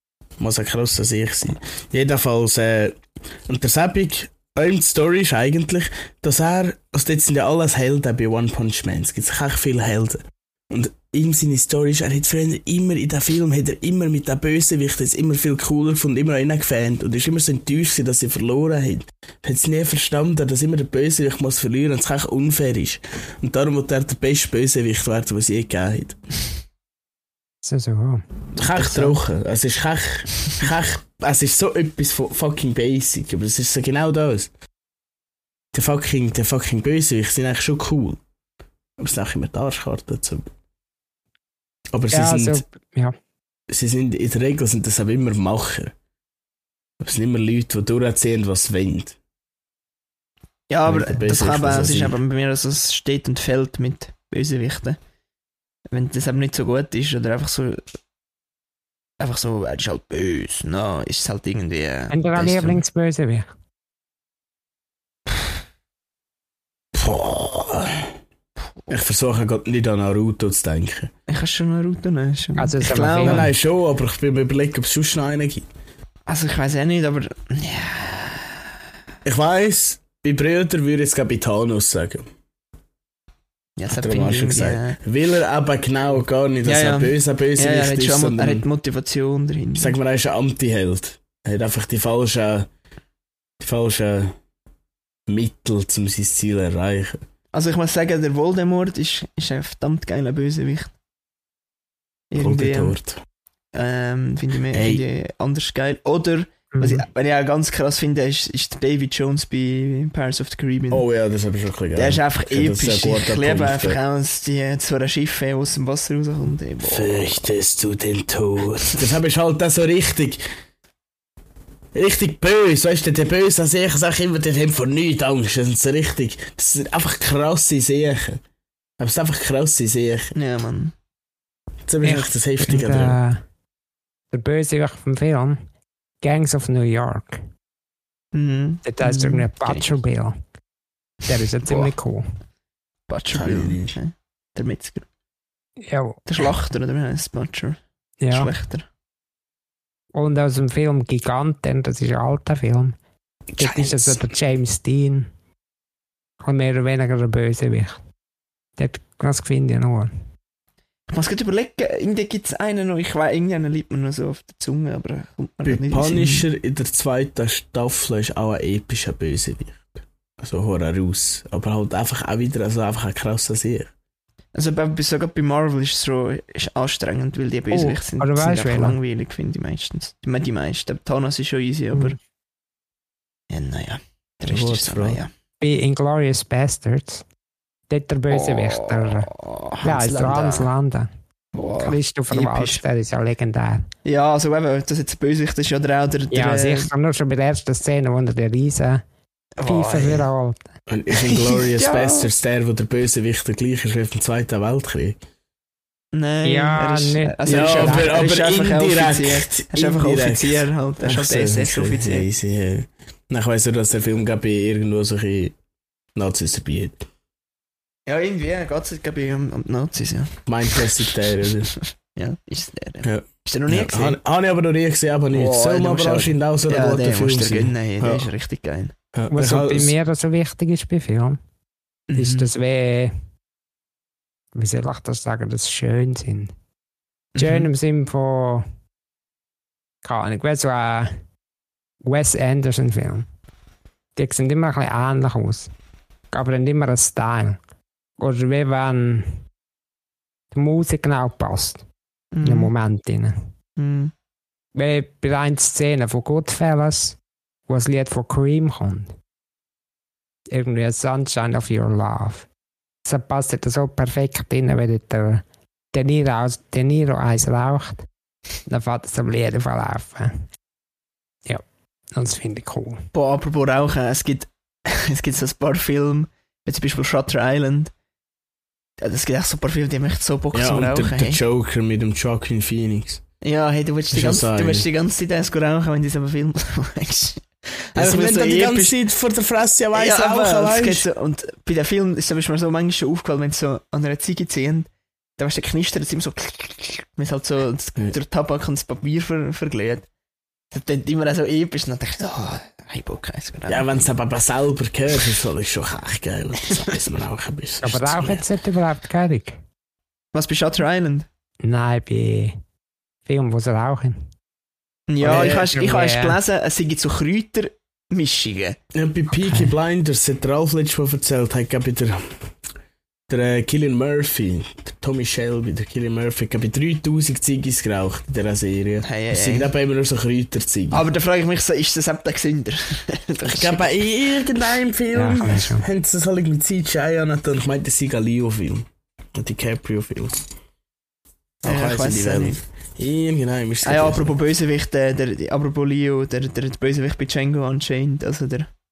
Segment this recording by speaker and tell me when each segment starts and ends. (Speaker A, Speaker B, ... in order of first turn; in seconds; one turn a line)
Speaker A: 0.4-26.2
Speaker B: 27.6-28.2
Speaker A: 28.5-34.5
Speaker C: 28.7-29.1
Speaker A: 35.7-38.2
Speaker A: 39.0-40.5
Speaker A: 41.9-42.6
Speaker B: 42.1-43.1
Speaker A: 43.7-45.9
Speaker A: 47.0-49.2
Speaker C: 50.7-55.0
Speaker A: 50.9-52.2
Speaker C: 55.9-57.8
Speaker C: 59.2-62.8
Speaker B: 62.1-63.5
Speaker A: 66.9-68.1
Speaker A: 68.9-71.1
Speaker C: 71.3-73.5
Speaker B: 72.6-73.5
Speaker A: 73.2-75.7
Speaker C: 76.3-78.6
Speaker A: 79.2-82.3
Speaker C: 83.8-85.0
Speaker A: 83.9-88.6
Speaker C: 86.6-89.9
Speaker A: 89.8-92.7
Speaker A: 93.6-94.4
Speaker A: 95.3-97.2
Speaker C: 97.5-100.9
Speaker C: 102.3-103.0
Speaker A: 102.4-103.2
Speaker C: 103.7-111.0
Speaker A: 104.7-105.0
Speaker B: 106.7-107.0
Speaker A: 110.9-114.0
Speaker C: 111.9-117.4
Speaker A: 116.8-120.4
Speaker A: 121.9-128.4
Speaker A: 129.0-130.3
Speaker C: 130.3-130.9
Speaker A: 131.9-133.2
Speaker B: 132.0-133.4
Speaker B: 134.3-135.6
Speaker B: 136.2-137.4
Speaker C: 138.3-139.9
Speaker B: 138.8-140.4
Speaker B: 141.3-142.3
Speaker C: 141.6-141.9
Speaker C: 143.1-145.1
Speaker A: 143.3-143.9
Speaker B: 145.8-146.5
Speaker C: 146.3-147.8
Speaker B: 148.2-148.5
Speaker C: 148.3-148.8
Speaker B: 150.1-153.0
Speaker A: 153.6-154.3
Speaker B: 153.6-155.3
Speaker B: 156.4-158.0
Speaker B: 158.8-160.1
Speaker C: 161.1-166.4
Speaker A: 165.6-173.9
Speaker C: 174.5-182.2
Speaker B: 177.7-179.0
Speaker C: 183.5-185.3
Speaker A: 184.5-185.2
Speaker B: 185.6-187.2
Speaker B: 187.9-189.3
Speaker C: 188.3-190.7
Speaker B: 189.8-191.1
Speaker C: 191.5-192.8
Speaker B: 191.8-193.8
Speaker C: 194.0-196.9
Speaker B: 196.3-199.0
Speaker C: 199.6-200.3
Speaker B: 199.6-200.6
Speaker A: 200.9-205.2
Speaker C: 201.2-202.3
Speaker C: 206.1-212.3
Speaker B: 206.4-208.2
Speaker A: 207.5-215.6
Speaker A: 216.1-217.0
Speaker C: 218.1-224.2
Speaker A: 220.5-221.7
Speaker A: 223.0-228.3
Speaker C: 225.3-228.9
Speaker A: 229.1-229.9
Speaker B: 229.3-231.4
Speaker C: 232.1-232.5
Speaker B: 232.1-233.2
Speaker B: 234.5-236.5
Speaker C: 237.3-237.7
Speaker B: 237.4-238.7
Speaker B: 240.0-241.1
Speaker B: 242.0-243.2
Speaker B: 244.2-245.7
Speaker B: 246.3-247.6
Speaker B: 248.2-249.4
Speaker B: 250.5-251.8
Speaker C: 252.3-252.7
Speaker B: 252.4-253.4
Speaker C: 253.8-254.1
Speaker B: 254.7-259.1
Speaker B: 260.5-262.4
Speaker B: 263.1-268.1
Speaker B: 268.6-270.4
Speaker B: 272.1-273.0
Speaker C: 273.1-277.9
Speaker C: 279.0-281.4
Speaker A: 280.5-283.2
Speaker C: 283.4-288.9
Speaker A: 284.1-284.9
Speaker A: 287.9-291.1
Speaker C: 289.9-300.1
Speaker C: 300.7-304.1
Speaker A: 303.7-308.4
Speaker B: 307.8-309.6
Speaker C: 310.3-311.3
Speaker B: 311.6-312.6
Speaker B: 313.2-314.2
Speaker C: 315.1-318.8
Speaker A: 315.2-315.7
Speaker B: 315.2-316.4
Speaker A: 318.9-322.3
Speaker B: 319.3-319.7
Speaker A: 323.3-331.0
Speaker C: 329.0-329.7
Speaker C: 330.9-334.1
Speaker A: 333.4-340.4
Speaker B: 335.1-335.8
Speaker A: 341.6-344.3
Speaker C: 341.6-342.6
Speaker C: 343.8-348.7